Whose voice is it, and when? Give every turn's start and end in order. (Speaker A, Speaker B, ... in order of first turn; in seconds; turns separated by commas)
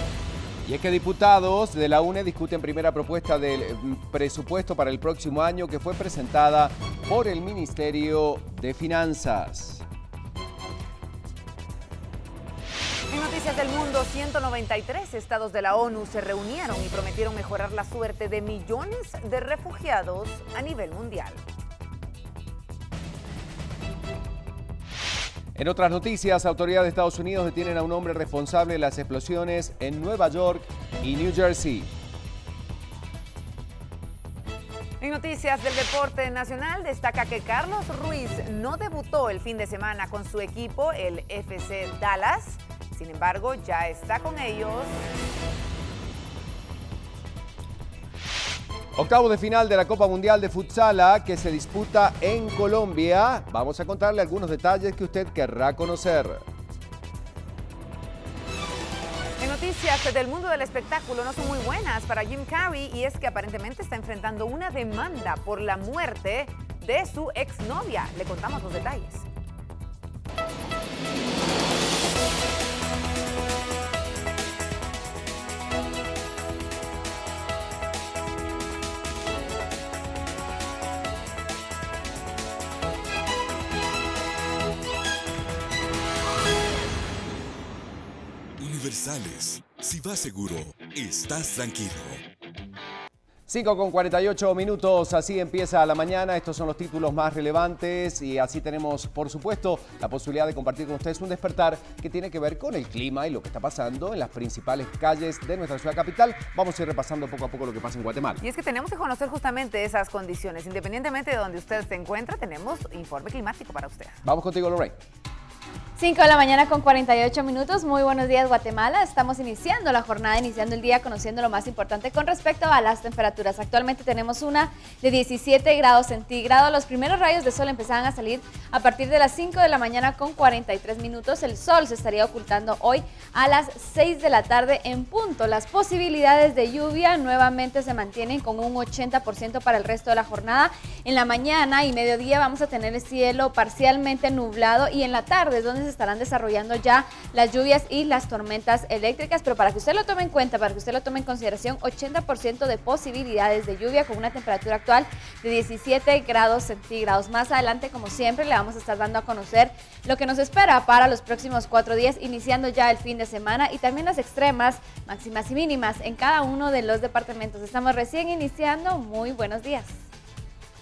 Speaker A: 0.7-9.8, Speaker B: 13.1-21.4, Speaker A: 25.5-31.9, Speaker B: 35.0-45.1, Speaker A: 49.0-56.4, Speaker B: 59.4-69.3, Speaker C: 88.6-92.2, Speaker A: 93.5-108.4, Speaker B: 108.4-114.2, Speaker A: 114.2-115.0, Speaker D: 116.0-170.0